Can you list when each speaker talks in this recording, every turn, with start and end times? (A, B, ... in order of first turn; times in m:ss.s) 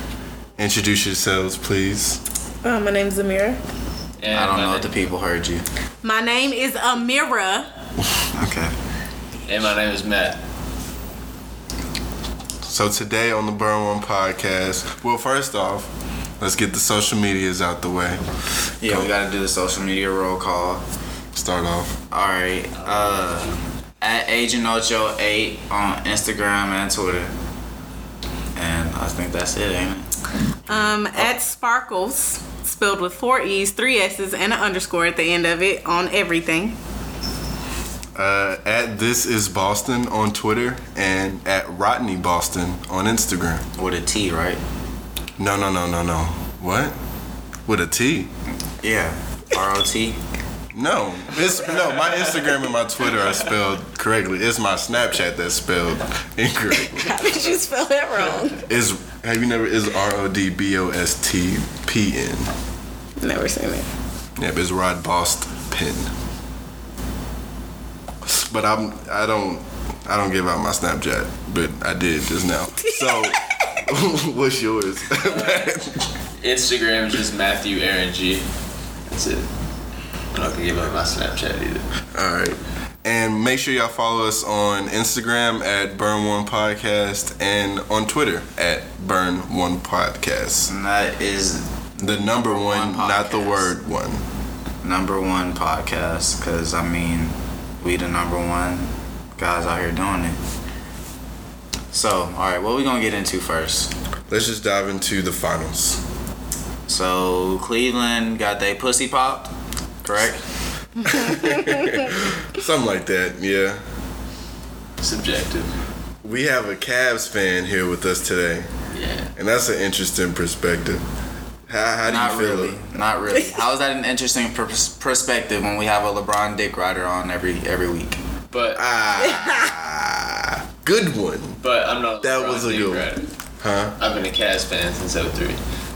0:00.6-0:02.2 A
0:02.6-0:03.6 B
0:04.2-0:05.1 C
0:04.3-0:05.6 D
0:06.0-0:07.7 B
0:08.3-0:08.7 D
0:09.5-0:10.4 C
0:12.6-0:18.2 A
0:18.8-0:20.8 D
0:18.8-0:19.1 A
0:21.3-0:22.0 A
0:22.1-0:27.3 D
0:22.8-0:23.6 C
0:28.5-0:30.1 D
0:30.7-0:36.8 B
0:38.1-0:43.6 A
0:43.8-0:44.6 D
0:45.4-0:47.0 A
0:47.6-0:48.3 A
0:48.8-0:50.2 D
0:50.7-0:57.3 A
0:51.7-0:53.5 C
0:56.7-0:58.6 B
0:58.2-0:58.5 C
0:58.7-1:02.5 A
1:03.2-1:03.8 B
1:04.4-1:06.1 A
1:08.2-1:16.1 A
1:12.8-1:13.3 B
1:15.2-1:15.7 C
1:16.4-1:18.4 C
1:19.1-1:19.4 C
1:20.3-1:21.8 C
1:22.1-1:30.7 A
1:30.6-1:33.7 D
1:32.0-1:34.2 A
1:34.8-1:40.4 D
1:41.9-1:43.9 D
1:44.3-1:46.0 A
1:46.9-1:49.5 D
1:50.0-1:50.4 D
1:51.0-1:52.0 B
1:51.0-1:53.8 A
1:55.0-1:55.7 C
1:56.2-1:58.7 A
1:58.9-1:59.3 C
1:59.4-2:01.0 A
2:01.7-2:02.8 A
2:02.1-2:08.2 D
2:08.5-2:08.9 C
2:08.7-2:11.6 A
2:09.2-2:09.7 B
2:11.6-2:13.3 C
2:12.2-2:14.0 A
2:14.0-2:15.6 C